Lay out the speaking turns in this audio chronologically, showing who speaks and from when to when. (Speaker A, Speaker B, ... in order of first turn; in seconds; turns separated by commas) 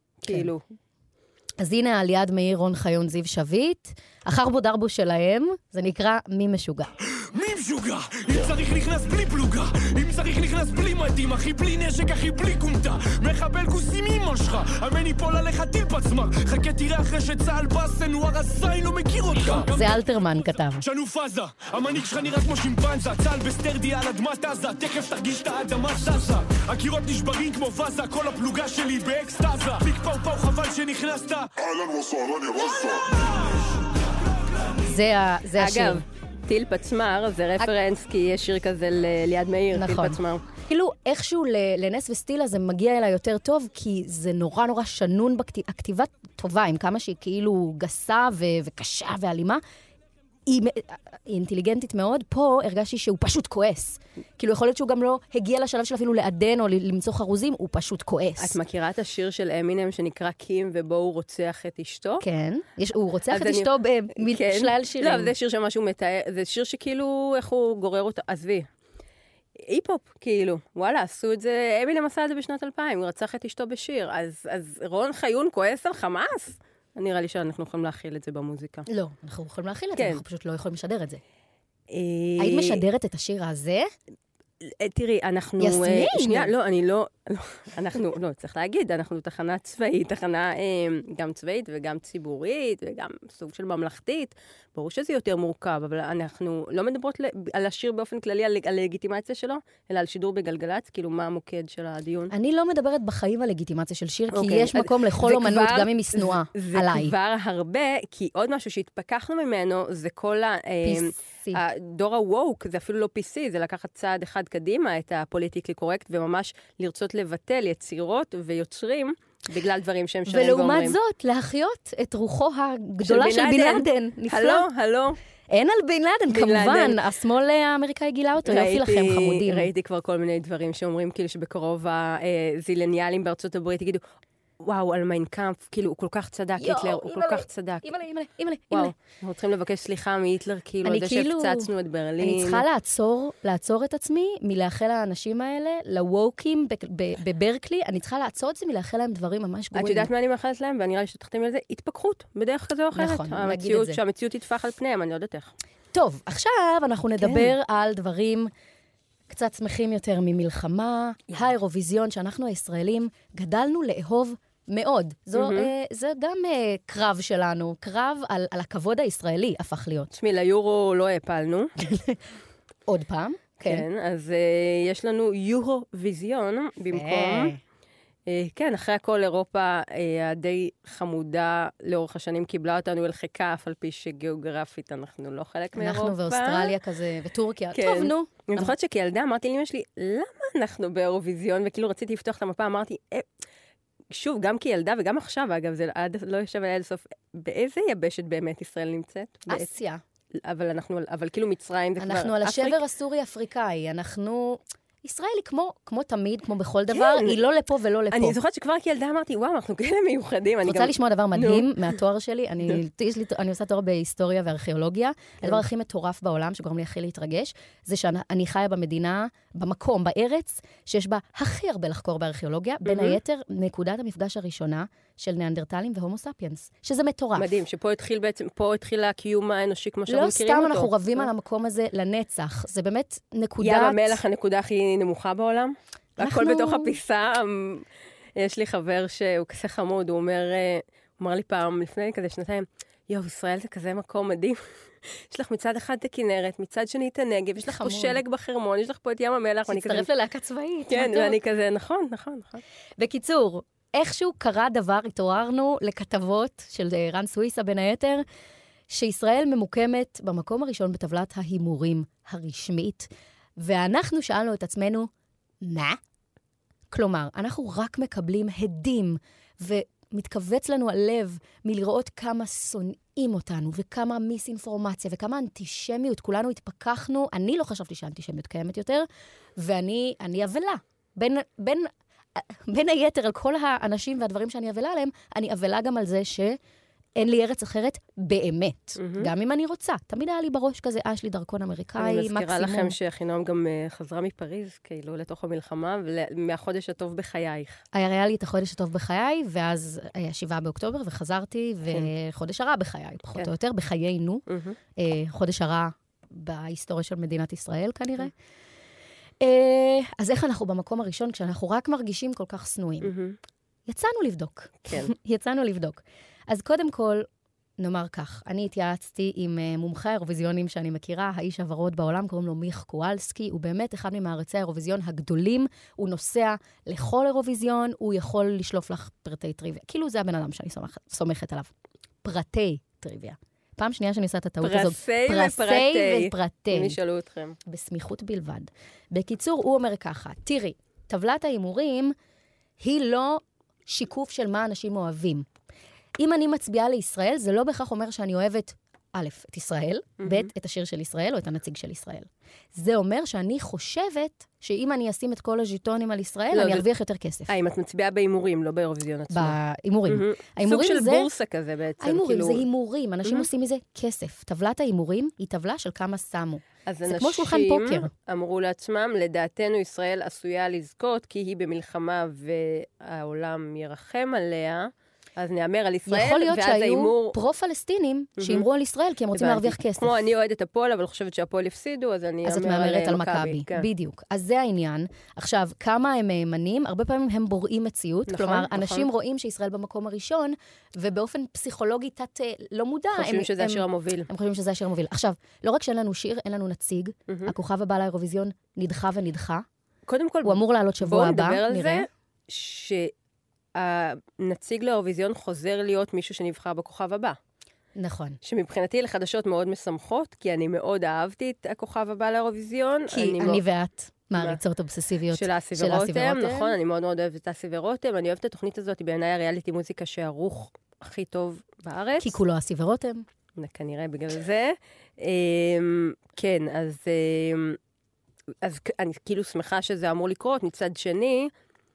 Speaker A: 0.2-0.6, Speaker B: 1.6-6.9, Speaker C: 7.3-19.7, Speaker B: 19.6-20.9, Speaker C: 20.9-31.5, Speaker B: 34.8-36.0, Speaker A: 35.6-40.4, Speaker B: 39.7-49.6, Speaker B: 50.5-58.6, Speaker A: 58.4-62.2, Speaker B: 62.2-65.3, Speaker A: 63.3-68.7, Speaker A: 69.6-78.9, Speaker B: 78.9-81.2, Speaker A: 80.0-80.2, Speaker A: 81.9-82.8, Speaker B: 82.4-83.9, Speaker A: 84.6-102.3, Speaker B: 85.6-86.5, Speaker B: 102.3-107.1, Speaker A: 104.3-121.0, Speaker B: 110.8-111.6, Speaker B: 120.3-124.7, Speaker A: 123.0-125.2, Speaker B: 125.5-129.7, Speaker A: 126.3-127.0, Speaker A: 128.4-134.0, Speaker A: 134.6-137.9, Speaker B: 136.6-138.9, Speaker A: 138.7-142.6, Speaker B: 140.8-141.7, Speaker B: 142.2-150.1, Speaker A: 149.7-155.5, Speaker B: 152.9-154.0, Speaker B: 155.9-158.5, Speaker A: 157.2-157.6, Speaker B: 159.3-170.1, Speaker A: 165.3-165.7, Speaker A: 170.1-171.7, Speaker B: 171.9-172.2, Speaker B: 172.9-173.8, Speaker A: 173.6-177.5, Speaker B: 176.9-177.6, Speaker A: 178.3-186.8, Speaker B: 185.8-188.7, Speaker A: 187.7-193.3, Speaker A: 194.1-199.7, Speaker B: 199.5-200.0, Speaker A: 200.4-202.8, Speaker B: 202.0-208.4, Speaker A: 206.9-207.4, Speaker A: 208.1-211.7, Speaker B: 210.6-227.5, Speaker A: 222.8-223.2, Speaker A: 227.4-231.3, Speaker B: 230.1-234.2, Speaker A: 233.6-237.9, Speaker B: 236.2-237.0, Speaker A: 238.4-250.1, Speaker B: 247.6-248.2, Speaker B: 249.7-251.4, Speaker A: 250.9-252.6, Speaker B: 253.0-258.2, Speaker B: 258.9-265.1, Speaker B: 265.6-266.0, Speaker B: 266.9-279.1, Speaker B: 279.6-286.6, Speaker B: 287.2-292.9, Speaker A: 289.0-289.3, Speaker A: 292.0-297.8, Speaker B: 297.9-304.4, Speaker A: 304.5-304.8, Speaker B: 305.0-308.3, Speaker B: 309.4-313.1, Speaker A: 313.0-313.4, Speaker B: 313.9-317.3, Speaker A: 314.9-315.1, Speaker B: 317.8-331.7, Speaker B: 332.2-337.0, Speaker A: 334.6-337.6, Speaker B: 337.7-342.1, Speaker B: 342.8-345.5, Speaker B: 346.2-357.5, Speaker A: 350.2-350.5, Speaker A: 356.5-356.9, Speaker A: 357.5-362.6, Speaker B: 359.3-361.3, Speaker B: 362.0-368.1, Speaker A: 366.9-377.4, Speaker B: 376.1-380.2, Speaker A: 378.4-378.7, Speaker A: 379.3-383.9, Speaker B: 382.4-399.6, Speaker A: 388.3-389.1, Speaker A: 393.1-394.3, Speaker A: 397.3-397.5, Speaker A: 400.1-403.1, Speaker B: 400.4-402.1, Speaker A: 403.8-407.4, Speaker B: 408.0-408.4, Speaker A: 408.4-413.6, Speaker B: 413.1-416.7, Speaker A: 415.3-422.4, Speaker B: 422.2-423.3, Speaker A: 423.6-427.8, Speaker A: 428.6-431.5